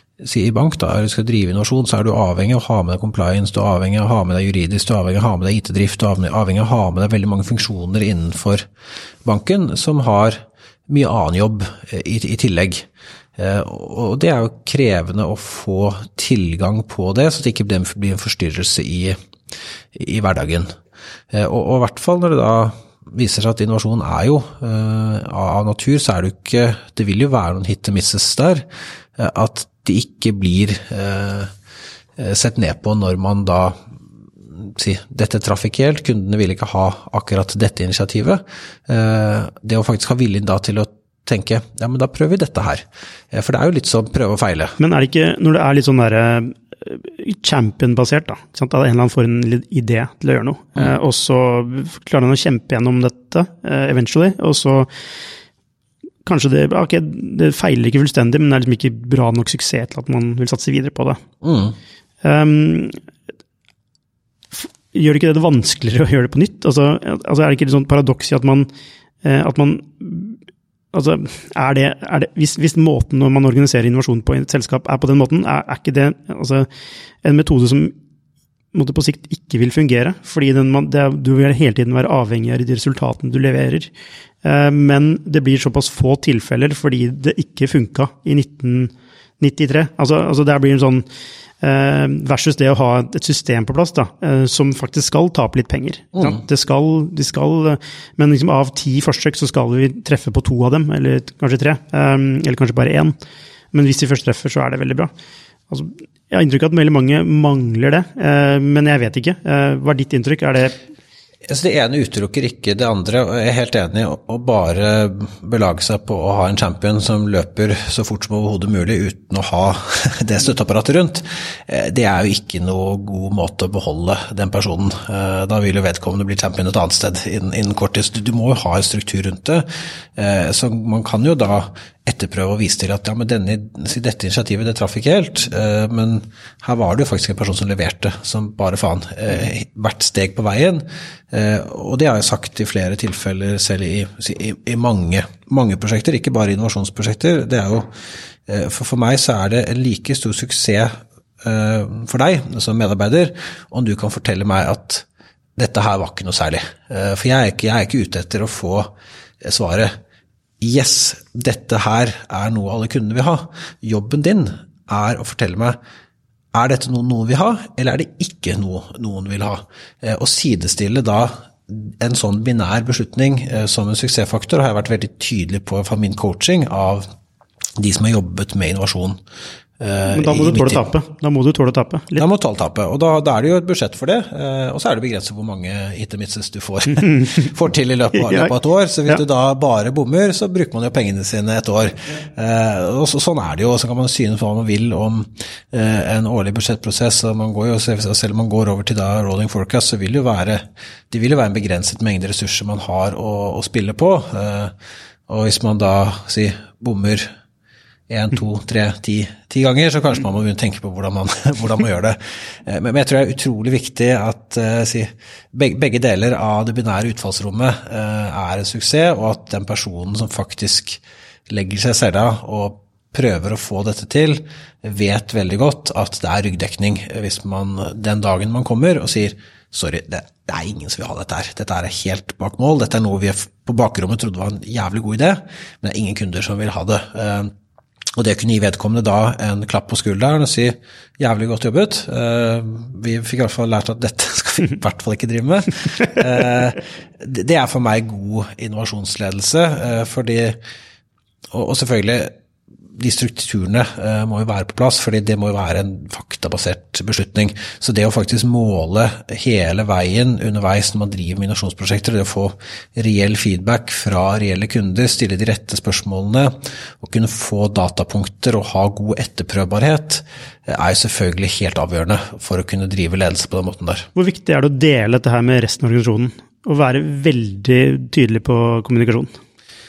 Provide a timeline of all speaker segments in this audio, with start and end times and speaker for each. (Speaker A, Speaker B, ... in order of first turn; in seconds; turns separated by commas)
Speaker A: 0.2-8.7, Speaker A: 9.2-19.2, Speaker A: 19.9-20.7, Speaker A: 21.3-28.6, Speaker A: 29.1-31.5, Speaker A: 32.2-33.8, Speaker A: 34.5-44.8, Speaker B: 44.8-54.9, Speaker B: 56.2-61.2, Speaker A: 61.4-61.8, Speaker B: 62.2-63.0, Speaker B: 64.5-68.7, Speaker B: 69.2-70.4, Speaker B: 70.9-76.7, Speaker B: 77.2-77.9, Speaker B: 78.7-83.9, Speaker B: 84.4-91.0, Speaker B: 91.6-103.1, Speaker A: 96.1-96.4, Speaker B: 103.7-105.1, Speaker B: 105.7-110.8, Speaker A: 111.5-147.9, Speaker A: 148.4-159.9, Speaker A: 160.6-165.8, Speaker A: 166.5-177.1, Speaker A: 177.8-179.2, Speaker A: 179.8-180.8, Speaker B: 180.1-182.2, Speaker A: 182.2-204.7, Speaker B: 187.1-187.3, Speaker B: 188.2-188.5, Speaker A: 205.3-207.3, Speaker A: 208.1-237.5, Speaker A: 238.2-250.6, Speaker A: 251.5-252.3, Speaker A: 252.9-274.1, Speaker B: 274.1-279.3